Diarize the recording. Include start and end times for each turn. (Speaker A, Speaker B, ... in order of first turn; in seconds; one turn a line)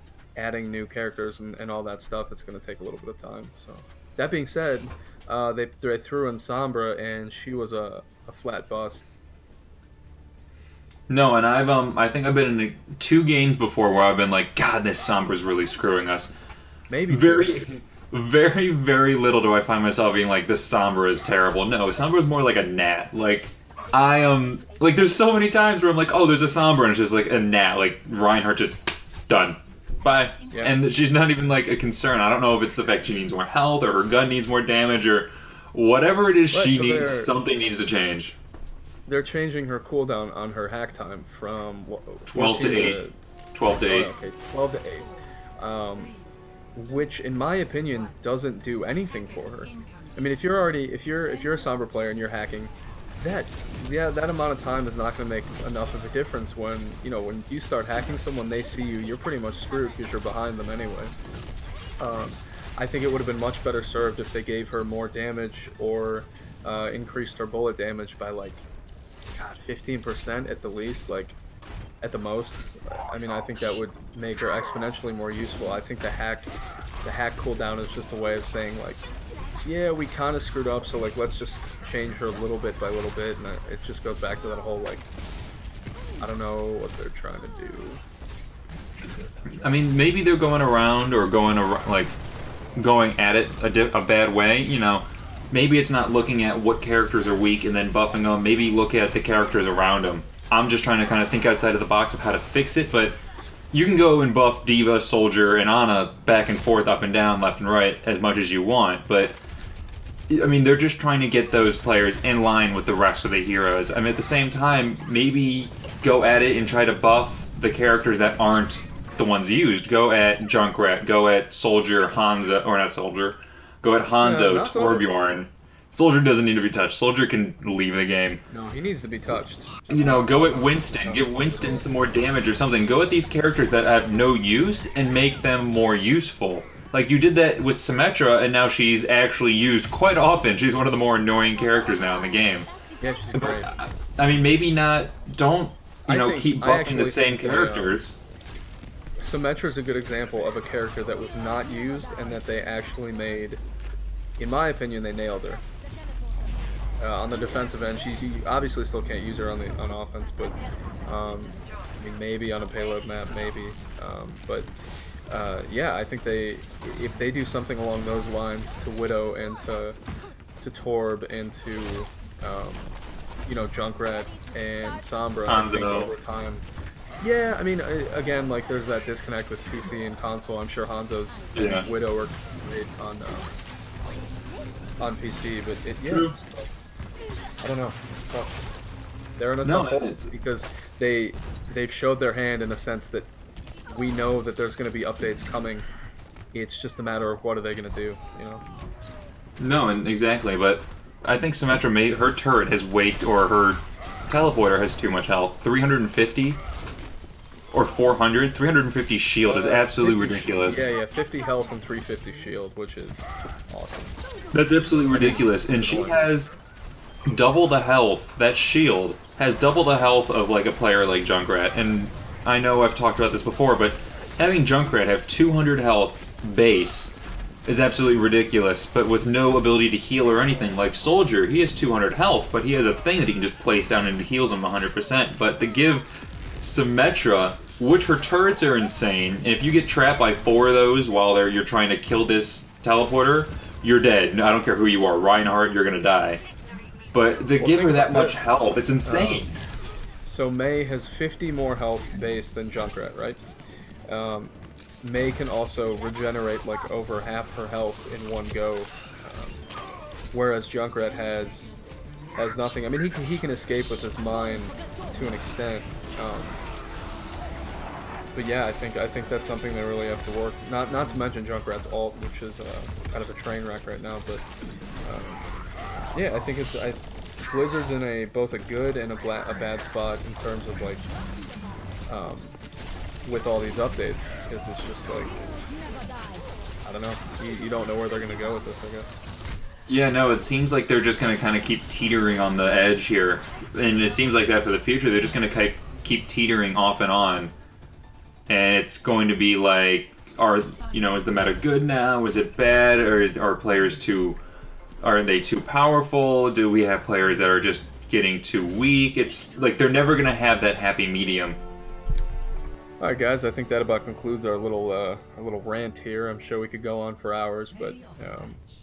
Speaker A: 0.3-9.1
Speaker B: 11.1-16.3
Speaker A: 16.9-17.6
Speaker B: 17.1-38.4
Speaker A: 30.5-30.8
Speaker A: 36.5-37.4
Speaker A: 39.0-43.1
Speaker B: 42.3-43.0
Speaker B: 43.5-44.1
Speaker A: 43.7-46.1
Speaker A: 46.7-61.1
Speaker A: 62.0-68.6
Speaker A: 69.3-71.4
Speaker A: 72.0-76.5
Speaker A: 77.0-79.0
Speaker A: 79.6-85.0
Speaker A: 86.2-88.0
Speaker B: 89.6-92.1
Speaker B: 92.8-103.2
Speaker B: 103.7-109.4
Speaker B: 110.3-128.4
Speaker A: 124.2-125.1
Speaker A: 128.5-131.9
Speaker B: 129.9-142.7
Speaker A: 143.0-143.7
Speaker B: 143.3-148.2
Speaker A: 146.1-148.0
Speaker A: 149.2-153.6
Speaker A: 154.4-155.6
Speaker A: 157.0-164.7
Speaker A: 165.3-170.0
Speaker A: 170.6-176.6
Speaker B: 175.5-176.1
Speaker A: 177.2-183.5
Speaker B: 181.5-181.8
Speaker A: 185.0-186.7
Speaker B: 186.0-186.3
Speaker A: 187.6-188.7
Speaker A: 189.4-193.3
Speaker B: 189.6-190.3
Speaker A: 193.9-195.9
Speaker A: 196.5-198.6
Speaker B: 199.6-206.6
Speaker B: 207.7-210.8
Speaker A: 209.4-214.2
Speaker B: 214.5-216.6
Speaker A: 215.1-216.3
Speaker B: 217.3-227.1
Speaker B: 227.7-236.1
Speaker B: 236.6-246.4
Speaker B: 247.1-249.5
Speaker A: 247.6-248.4
Speaker A: 249.0-249.5
Speaker A: 250.2-253.4
Speaker A: 254.1-259.6
Speaker A: 260.3-261.8
Speaker A: 262.4-266.6
Speaker A: 268.3-274.4
Speaker A: 275.0-275.5
Speaker A: 276.1-281.1
Speaker A: 282.1-282.6
Speaker A: 283.2-285.4
Speaker A: 286.8-289.1
Speaker B: 289.9-297.5
Speaker B: 298.5-304.4
Speaker B: 305.0-311.6
Speaker A: 313.0-318.6